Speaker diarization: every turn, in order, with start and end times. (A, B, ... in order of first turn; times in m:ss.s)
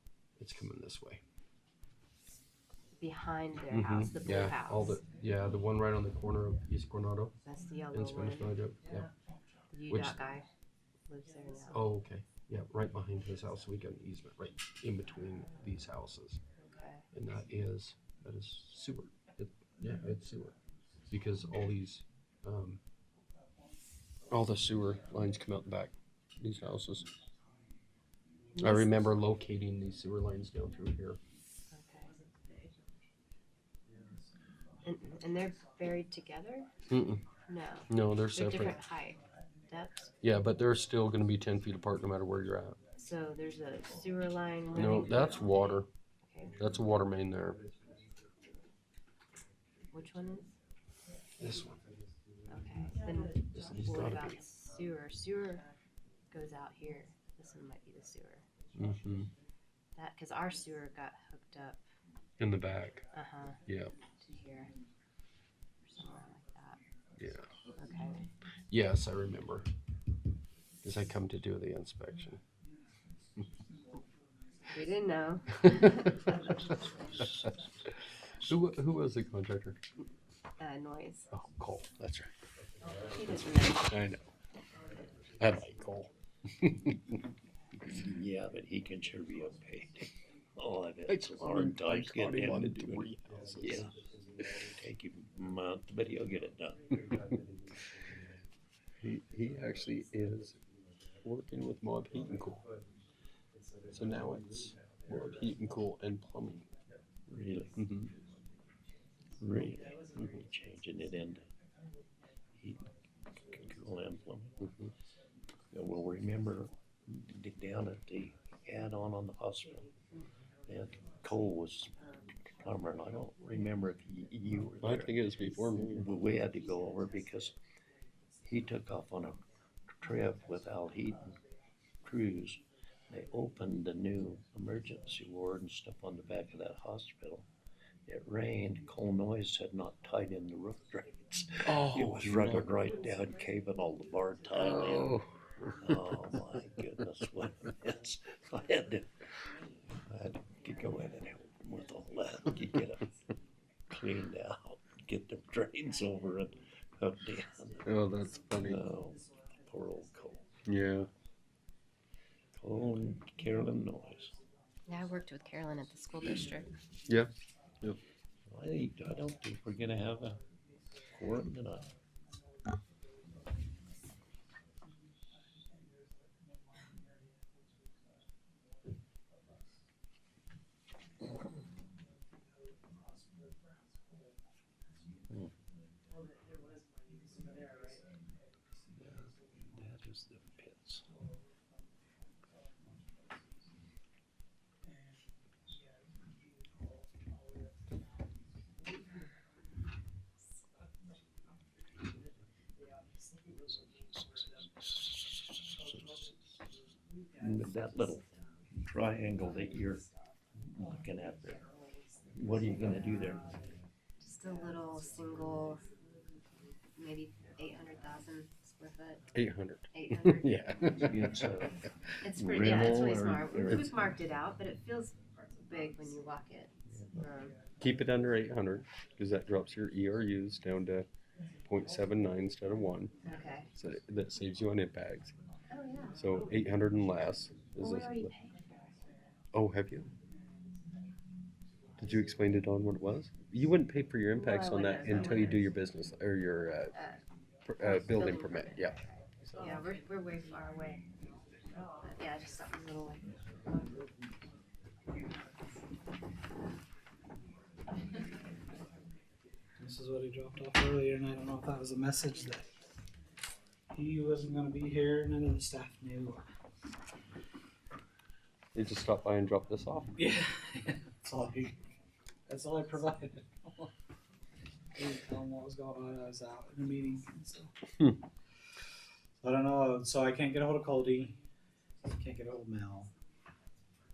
0:00.4-0:01.2 A
0:03.0-0:05.0 B
0:03.7-0:07.3 A
0:07.4-0:08.5 B
0:07.9-0:09.1 A
0:09.7-0:10.5 B
0:09.9-0:10.2 A
0:11.1-0:11.8 B
0:11.7-0:16.4 A
0:16.6-0:17.0 B
0:17.1-0:20.6 A
0:21.1-0:22.8 A
0:24.3-0:27.1 A
0:28.6-0:29.0 B
0:28.6-0:31.2 A
0:31.7-0:32.1 B
0:34.8-0:36.7 B
0:36.9-0:37.2 A
0:37.5-0:40.1 B
0:37.9-0:38.8 A
0:40.2-0:42.8 A
0:42.9-0:45.6 B
0:44.7-0:45.9 A
0:46.2-0:46.5 B
0:46.6-0:47.6 A
0:49.9-0:50.5 B
0:51.4-0:51.8 A
0:52.5-0:55.6 B
0:53.5-0:54.3 A
0:56.3-0:58.5 B
0:58.7-0:59.3 A
1:00.0-1:01.8 B
1:02.4-1:03.0 A
1:03.1-1:03.6 B
1:03.7-1:03.9 A
1:04.2-1:04.7 B
1:05.8-1:06.8 B
1:07.2-1:07.5 A
1:07.8-1:08.3 B
1:08.7-1:09.7 A
1:10.8-1:12.4 A
1:14.7-1:16.8 B
1:15.7-1:16.3 A
1:16.4-1:17.7 C
1:18.4-1:19.8 A
1:20.6-1:21.3 B
1:21.3-1:22.3 A
1:22.8-1:24.0 B
1:23.9-1:24.2 A
1:25.4-1:27.2 A
1:27.9-1:33.0 C
1:31.1-1:33.9 A
1:33.6-1:33.9 C
1:34.6-1:37.1 C
1:39.0-1:40.6 A
1:41.2-1:42.6 A
1:43.9-1:46.7 A
1:47.3-1:47.9 C
1:47.8-1:48.1 A
1:49.4-1:51.4 C
1:52.6-1:52.9 C
1:53.5-1:54.7 C
1:54.6-1:54.9 A
1:55.7-1:59.9 C
2:00.7-2:01.9 C
2:02.6-2:07.6 C
2:04.8-2:06.1 A
2:08.4-2:09.4 C
2:10.0-2:11.4 C
2:12.0-2:17.4 C
2:18.1-2:25.2 C
2:21.6-2:22.7 A
2:24.5-2:25.9 A
2:25.8-2:29.2 C
2:30.0-2:33.1 C
2:33.9-2:37.9 C
2:37.8-2:38.8 A
2:38.6-2:40.4 C
2:40.6-2:41.1 A
2:42.5-2:44.4 C
2:44.9-2:46.7 B
2:48.5-2:50.4 C
2:51.1-2:51.9 C
3:09.0-3:11.0 C
3:23.7-3:26.5 C
3:27.4-3:28.2 C
3:28.8-3:31.7 C
3:32.3-3:33.7 C
3:34.2-3:35.8 B
3:37.0-3:39.2 B
3:39.3-3:41.4 A
3:39.9-3:41.0 B
3:40.8-3:44.1 C
3:42.2-3:47.6 B
3:46.9-3:47.2 C
3:47.8-3:51.0 A
3:51.6-3:53.1 A
3:53.2-3:53.7 B
3:53.7-3:55.3 A
3:55.7-3:56.5 B
3:56.2-3:58.3 A
3:57.8-3:58.9 B
3:59.5-4:00.1 A
4:02.0-4:06.9 A
4:04.3-4:05.7 B
4:06.9-4:07.2 B
4:07.7-4:09.9 A
4:07.8-4:11.0 B
4:11.7-4:13.2 B
4:19.8-4:22.7 D
4:23.9-4:26.4 D
4:28.7-4:30.1 A
4:30.1-4:31.7 D
4:32.5-4:33.9 D
4:34.9-4:37.7 D
4:39.4-4:41.4 D
4:42.0-4:43.1 D